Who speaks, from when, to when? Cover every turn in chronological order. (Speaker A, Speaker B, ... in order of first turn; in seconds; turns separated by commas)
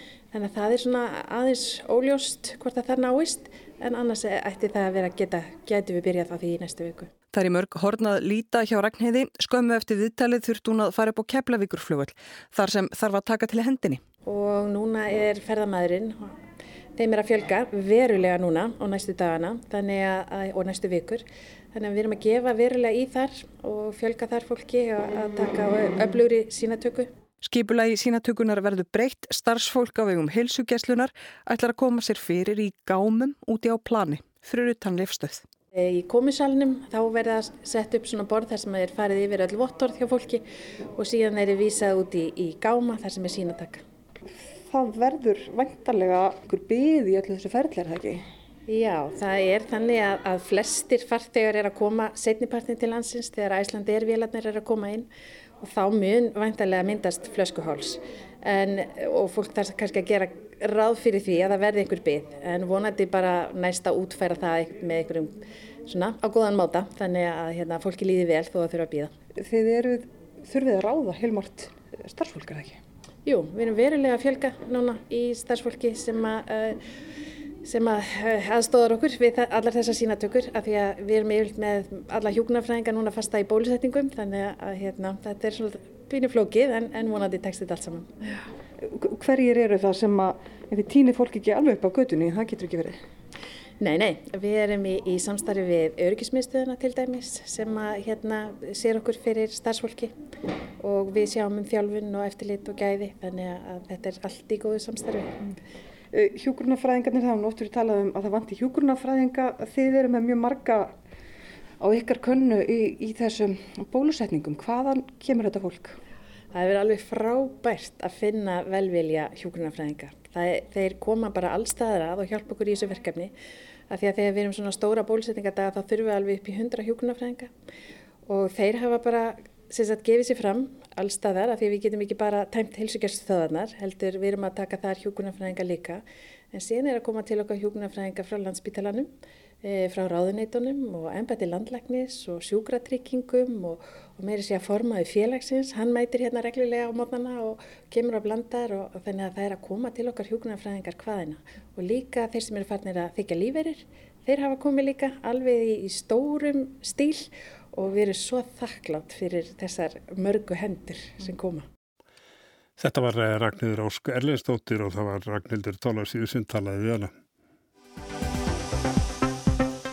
Speaker A: 0.3-7.1, Speaker B: 7.3-14.0, Speaker A: 14.2-16.4, Speaker A: 16.9-27.1, Speaker B: 27.4-35.4, Speaker A: 35.7-40.4, Speaker A: 41.0-43.8, Speaker C: 44.3-48.2, Speaker A: 48.7-55.1, Speaker A: 55.6-69.1, Speaker C: 69.4-72.8, Speaker A: 73.2-76.8, Speaker A: 77.6-88.1, Speaker C: 88.8-93.0, Speaker A: 93.8-100.1, Speaker A: 100.8-105.4, Speaker C: 106.1-110.9, Speaker C: 111.8-116.0, Speaker A: 116.5-123.3, Speaker A: 123.9-127.5, Speaker A: 128.3-139.1, Speaker A: 139.6-161.7, Speaker D: 162.8-167.1